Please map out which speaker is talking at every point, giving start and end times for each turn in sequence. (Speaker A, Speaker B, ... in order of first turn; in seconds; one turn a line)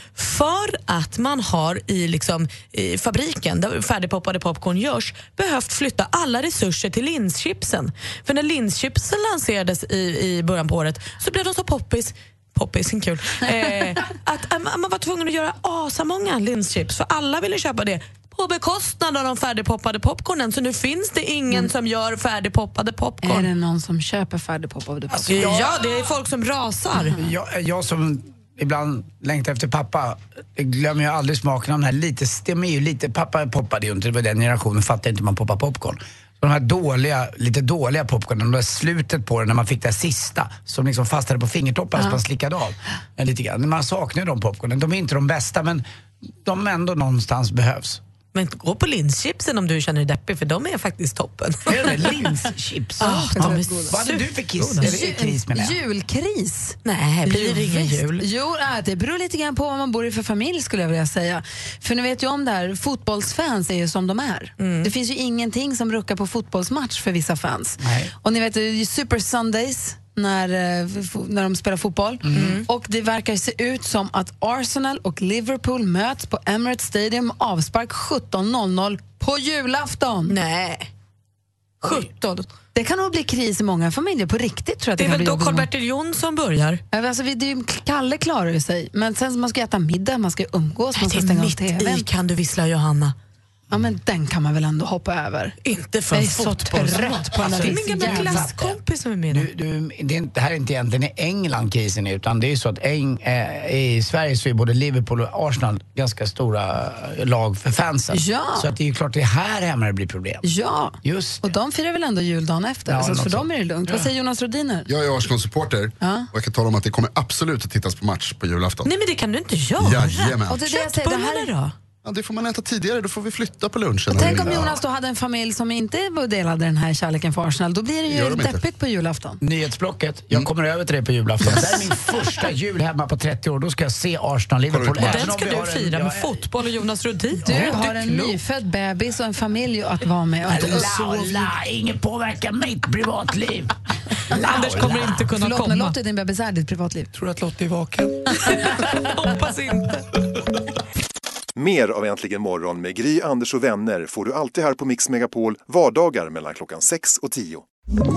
Speaker A: 0.2-23.5
Speaker B: 23.2-25.6
Speaker C: 25.1-25.9
Speaker A: 25.3-27.2
Speaker C: 27.1-45.8
Speaker C: 46.4-48.0
Speaker A: 48.3-51.8
Speaker C: 51.7-55.8
Speaker B: 53.0-53.9
Speaker A: 53.0-55.0
Speaker B: 54.8-80.3
Speaker A: 56.8-58.2
Speaker A: 64.6-64.9
Speaker C: 67.8-68.1
Speaker C: 72.2-72.6
Speaker A: 72.3-72.7
Speaker A: 80.3-80.9
Speaker C: 81.8-82.1
Speaker A: 81.8-82.5
Speaker B: 82.7-85.7
Speaker A: 85.0-86.8
Speaker B: 86.9-92.1
Speaker A: 91.0-93.2
Speaker B: 93.7-95.5
Speaker A: 95.6-99.5
Speaker B: 96.1-98.6
Speaker C: 97.3-98.8
Speaker C: 99.3-110.5
Speaker B: 108.1-108.7
Speaker B: 110.4-114.9
Speaker C: 111.0-111.5
Speaker C: 112.9-114.1
Speaker D: 114.9-118.9
Speaker B: 116.0-116.3
Speaker A: 118.8-121.6
Speaker D: 119.8-120.6
Speaker B: 120.5-121.7
Speaker D: 122.0-124.8
Speaker B: 124.1-129.4
Speaker D: 128.1-128.6
Speaker C: 129.4-136.5
Speaker D: 134.7-135.2
Speaker A: 134.9-138.4
Speaker C: 137.4-138.3
Speaker B: 137.4-141.4
Speaker C: 140.4-143.7
Speaker C: 144.3-145.3
Speaker A: 144.3-146.0
Speaker B: 145.4-147.1
Speaker C: 147.4-148.1
Speaker A: 148.3-150.0
Speaker E: 151.6-157.6